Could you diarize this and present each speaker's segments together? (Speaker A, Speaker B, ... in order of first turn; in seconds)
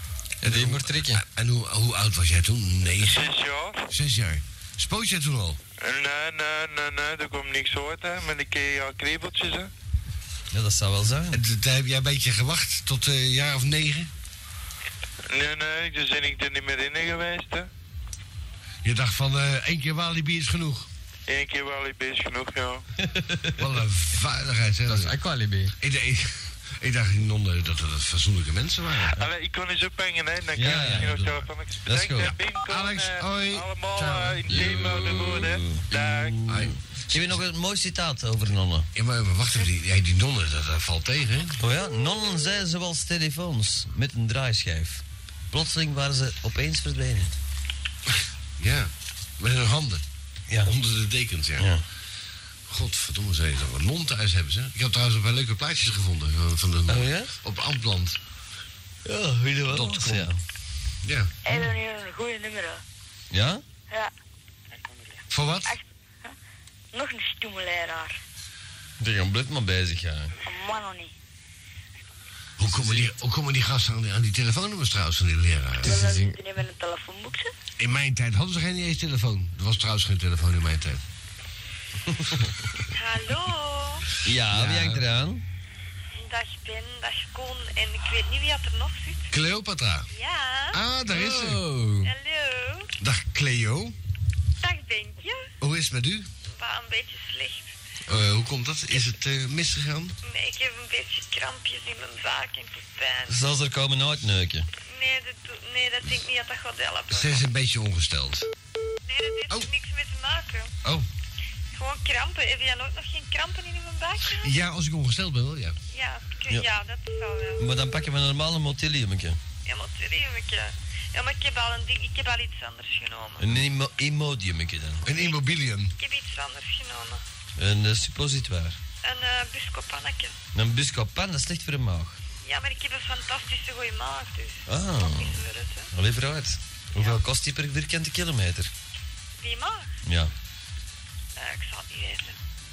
Speaker A: 0.4-1.2, 24.9-25.7, 75.8-76.4, 91.1-92.1
Speaker B: 0.4-3.3, 3.9-5.6, 11.3-14.1, 18.8-20.9, 23.6-25.2, 25.8-29.2, 30.6-31.5, 32.2-35.1, 36.5-37.4, 39.0-41.6, 48.1-50.0, 50.6-51.7, 52.7-58.2, 59.7-60.3, 61.0-61.3, 65.3-65.8, 72.6-76.0, 77.8-81.0, 84.5-85.0, 89.3-90.1, 90.7-91.7, 93.0-94.0, 95.6-96.3, 98.1-100.2, 107.1-108.5, 114.3-115.8, 125.0-126.0
Speaker C: 3.0-3.9, 5.8-9.7, 15.3-17.7, 21.3-22.9, 29.1-36.4
Speaker D: 10.5-11.4, 23.0-23.6, 30.6-32.3, 34.5-38.9, 41.6-47.4, 51.6-51.9, 56.9-57.3, 59.0-60.4, 63.3-63.6, 69.0-70.3, 72.7-73.1, 82.1-82.4, 84.2-85.4, 103.3-104.7, 117.6-119.4, 123.4-125.1, 127.6-128.8, 130.5-132.2, 134.7-135.4, 135.9-138.7, 140.1-140.3
Speaker E: 61.4-62.8, 65.7-66.3, 66.9-68.2, 70.4-71.1, 75.8-77.5
Speaker F: 82.9-84.1, 86.1-89.3, 90.1-90.8, 92.0-92.9, 94.6-95.5, 96.5-97.7, 100.2-103.4, 104.8-107.4, 109.0-110.7, 111.7-114.5, 115.9-117.7, 119.7-123.5, 126.0-127.2, 129.0-130.3, 132.4-135.9, 137.0-137.2, 139.4-139.9, 141.4-142.4